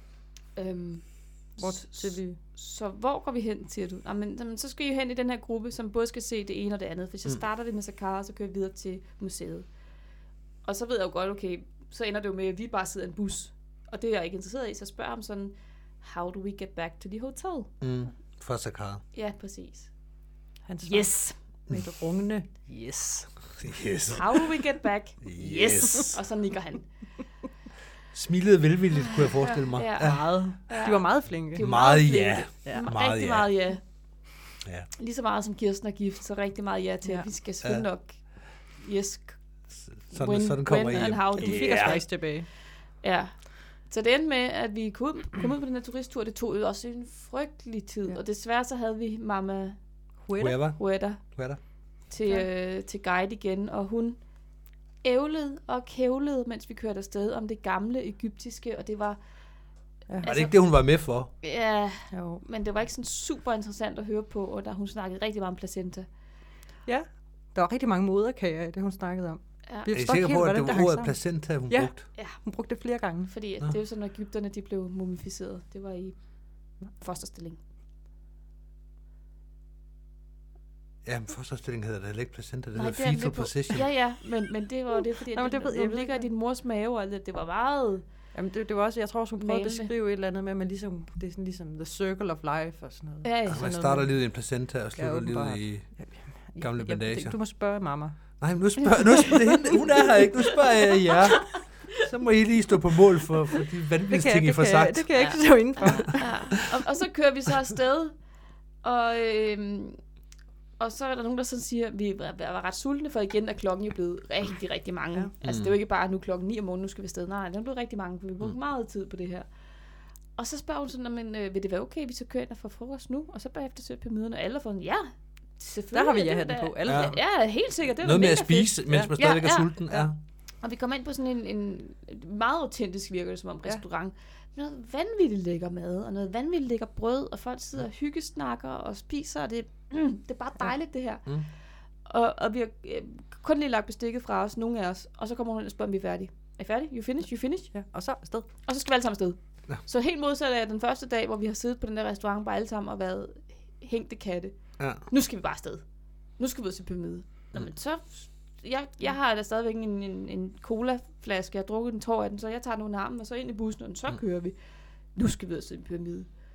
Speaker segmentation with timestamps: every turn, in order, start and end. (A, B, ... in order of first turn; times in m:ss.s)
0:00.6-0:09.7 A
0:01.6-0:02.4 B
0:10.6-0:17.7 A
0:17.8-0:19.0 C
0:19.1-0:19.9 A
0:20.7-0:23.3 B
0:20.8-0:21.4 A
0:23.6-0:24.4 C
0:24.1-0:26.9 A
0:25.2-0:26.2 C
0:28.1-0:30.3 C
0:29.0-0:33.8 A
0:30.0-0:31.7 B
0:31.6-0:33.5 C
0:35.0-0:38.2 A
0:38.8-0:39.4 A
0:39.9-0:42.0 C
0:40.1-0:42.1 A
0:41.4-0:42.5 B
0:43.0-0:49.8 A
0:50.2-0:50.6 B
0:50.4-0:51.6 C
0:50.7-0:51.2 A
0:52.1-0:54.2 A
0:55.0-0:59.2 A
1:00.1-1:00.4 B
1:00.2-1:00.6 A
1:00.2-1:01.3 C
1:01.4-1:06.1 A
1:02.1-1:02.4 B
1:06.9-1:13.3 B
1:09.9-1:12.0 C
1:13.3-1:16.2 A
1:17.0-1:17.6 A
1:21.0-1:23.9 C
1:22.8-1:28.0 A
1:25.3-1:26.3 B
1:28.3-1:34.2 B
1:29.4-1:29.9 A
1:33.2-1:33.7 A
1:33.5-1:35.9 C
1:35.0-1:38.4 B
1:36.6-1:37.4 C
1:38.4-1:45.1 C
1:39.1-1:39.8 B
1:41.5-1:42.0 A
1:44.1-1:46.7 B
1:45.1-1:48.2 A
1:45.8-1:46.1 C
1:48.8-1:50.0 A
1:50.8-1:59.5 A
1:55.4-1:55.7 C
2:00.4-2:09.7 A
2:05.9-2:07.2 B
2:06.9-2:07.2 C
2:08.0-2:10.2 C
2:08.9-2:09.1 B
2:10.6-2:21.4 A
2:22.1-2:27.7 A
2:27.7-2:28.5 B
2:28.6-2:35.8 A
2:36.4-2:44.6 A
2:45.2-2:46.3 A